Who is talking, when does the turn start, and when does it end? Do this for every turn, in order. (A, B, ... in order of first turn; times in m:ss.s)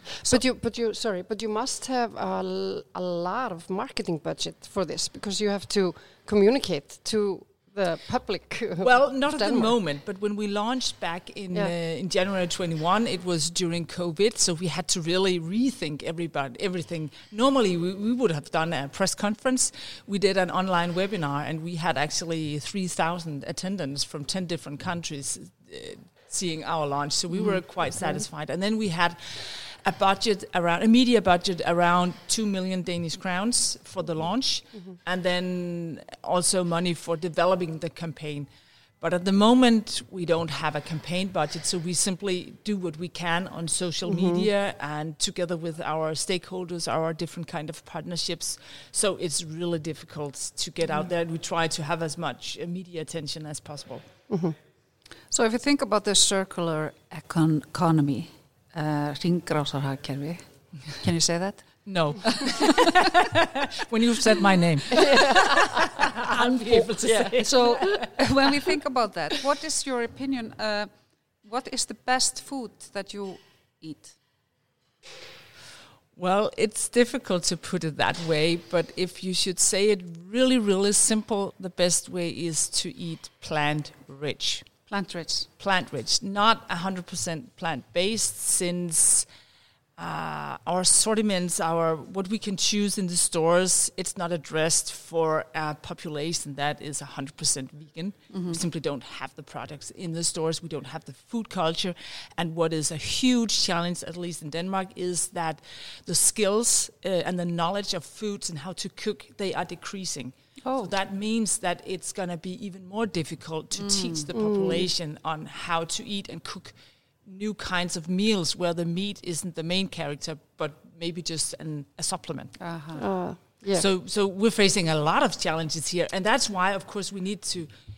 0:00.2-0:09.8 A
0:08.8-0:54.1 B
0:44.0-0:44.5 A
0:54.3-0:54.5 A
0:55.3-1:00.4 C
1:01.0-1:02.9 C
1:01.8-1:08.2 B
1:06.7-1:10.9 C
1:11.4-1:14.2 C
1:16.1-1:24.7 B
1:24.9-1:25.5 C
1:25.6-1:29.3 B
1:30.0-2:02.6 B
1:38.3-1:38.6 C
1:50.6-1:50.9 C
1:53.8-1:54.3 C
1:54.3-1:54.9 A
2:02.6-2:03.0 C
2:03.0-2:03.8 A
2:03.7-2:07.7 B